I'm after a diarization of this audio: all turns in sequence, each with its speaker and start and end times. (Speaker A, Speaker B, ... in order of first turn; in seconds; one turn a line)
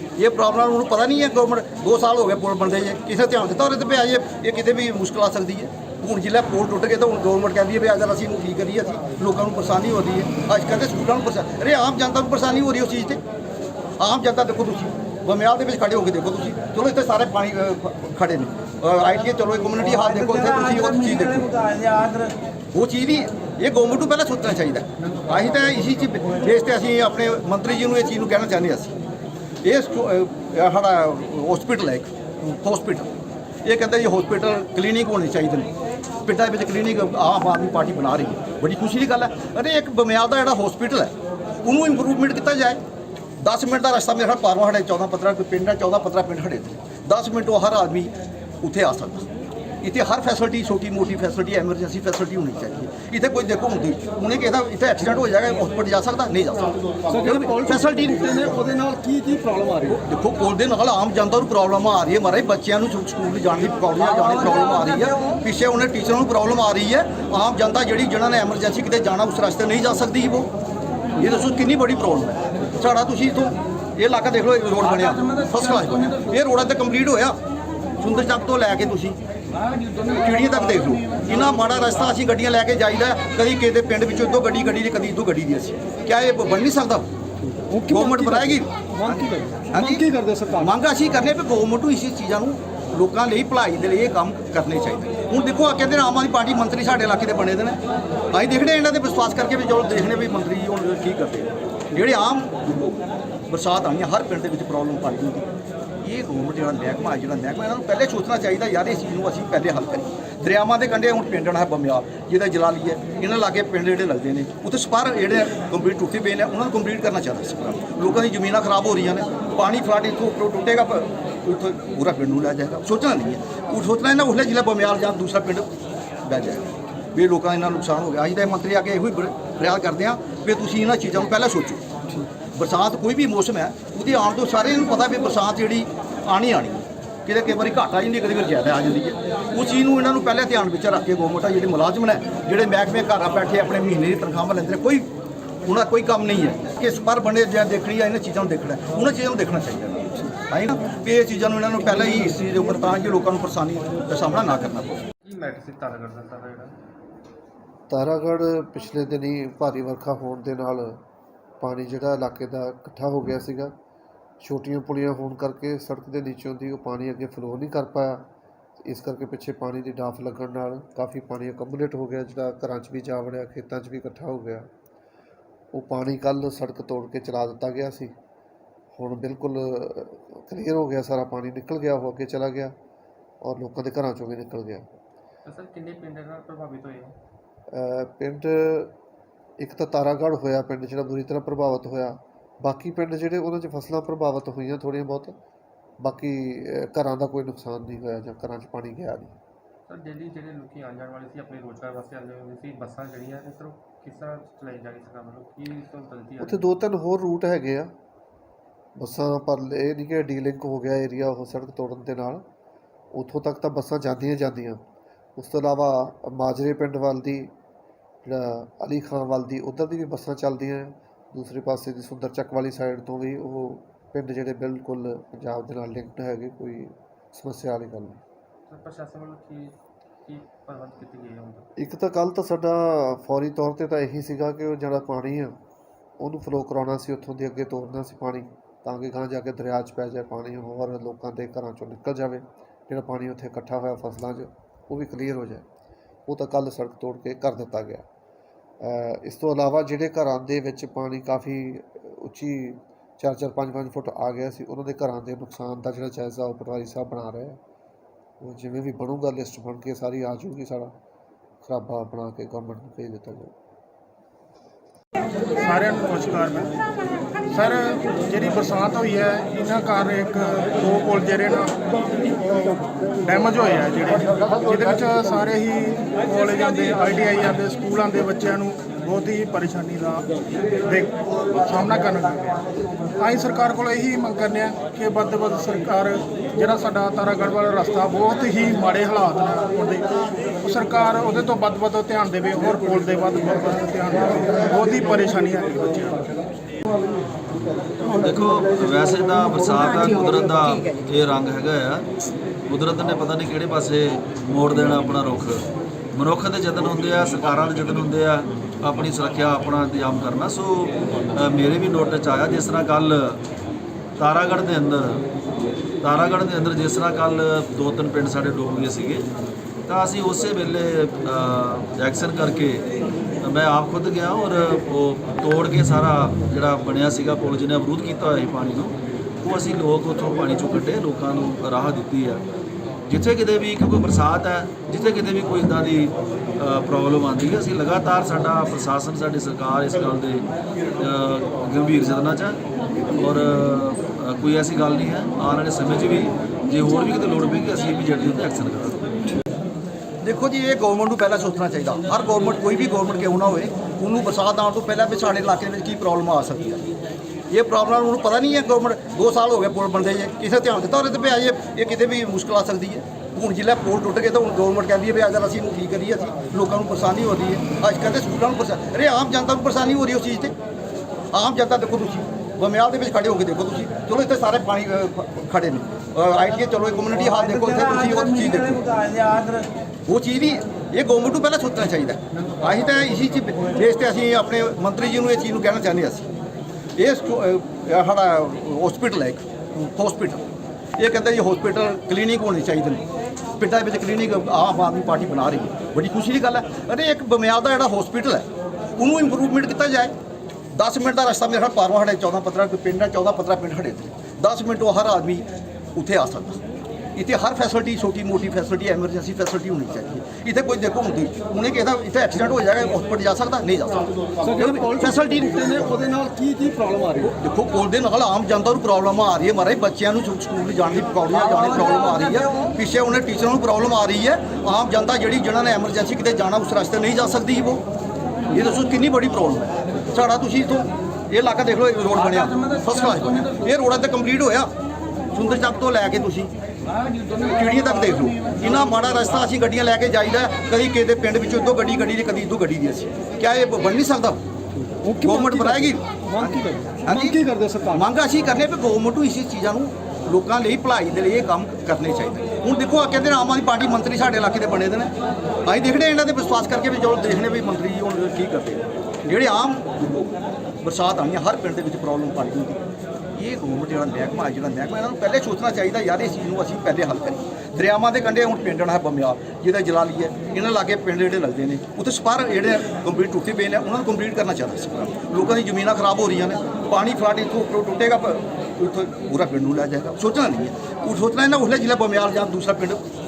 Speaker A: 0.2-13.2
Speaker A: 14.0-21.5
Speaker B: 20.1-22.3
Speaker A: 22.7-28.9
Speaker A: 29.6-33.1
Speaker A: 33.6-35.7
Speaker A: 36.2-41.1
Speaker A: 41.6-42.8
Speaker A: 43.4-49.3
Speaker A: 49.8-58.3
Speaker B: 57.1-59.9
Speaker A: 59.9-70.5
Speaker B: 64.2-65.3
Speaker A: 71.2-77.4
Speaker A: 78.0-79.2
Speaker A: 80.0-87.1
Speaker B: 87.5-90.5
Speaker A: 87.9-97.8
Speaker A: 98.3-102.9
Speaker A: 103.5-105.5
Speaker A: 106.0-125.7
Speaker A: 126.2-131.8
Speaker A: 132.6-145.1
Speaker A: 145.7-155.0
Speaker C: 155.2-156.7
Speaker D: 157.9-161.0
Speaker D: 161.6-163.7
Speaker D: 164.4-168.2
Speaker D: 168.8-174.7
Speaker D: 175.7-178.1
Speaker D: 178.9-182.7
Speaker D: 183.4-184.9
Speaker C: 185.4-187.1
Speaker D: 187.7-188.9
Speaker D: 189.6-195.3
Speaker D: 196.0-199.4
Speaker C: 199.9-206.7
Speaker D: 206.4-207.9
Speaker D: 209.0-212.4
Speaker D: 213.1-214.8
Speaker D: 215.4-217.5
Speaker D: 218.2-228.2
Speaker C: 228.7-229.7
Speaker C: 230.2-231.7
Speaker D: 231.8-235.6
Speaker D: 236.2-245.6
Speaker D: 246.3-248.0
Speaker D: 248.8-257.6
Speaker D: 258.4-260.9
Speaker D: 261.6-263.5
Speaker E: 265.6-266.8
Speaker E: 267.5-271.9
Speaker E: 273.2-280.2
Speaker E: 280.8-282.6
Speaker E: 283.2-290.1
Speaker E: 290.6-296.2
Speaker F: 298.1-302.1
Speaker F: 302.7-313.4
Speaker F: 314.2-315.2
Speaker F: 316.0-319.2
Speaker F: 319.9-322.8
Speaker F: 323.4-332.4
Speaker F: 333.1-340.5
Speaker F: 341.0-342.6
Speaker F: 343.1-349.0
Speaker A: 350.2-356.8
Speaker A: 357.5-370.5
Speaker A: 371.3-378.8
Speaker B: 377.7-379.7
Speaker A: 380.1-386.3
Speaker A: 387.0-390.4
Speaker A: 391.0-393.0
Speaker A: 393.6-398.5
Speaker A: 399.0-400.1
Speaker A: 400.7-406.6
Speaker A: 407.1-415.7
Speaker B: 414.4-417.2
Speaker A: 417.2-427.8
Speaker A: 428.5-434.7
Speaker A: 435.3-436.5
Speaker A: 437.4-444.4
Speaker A: 445.2-455.1
Speaker B: 447.1-447.8
Speaker A: 455.6-460.3
Speaker A: 460.8-462.8
Speaker A: 463.4-483.0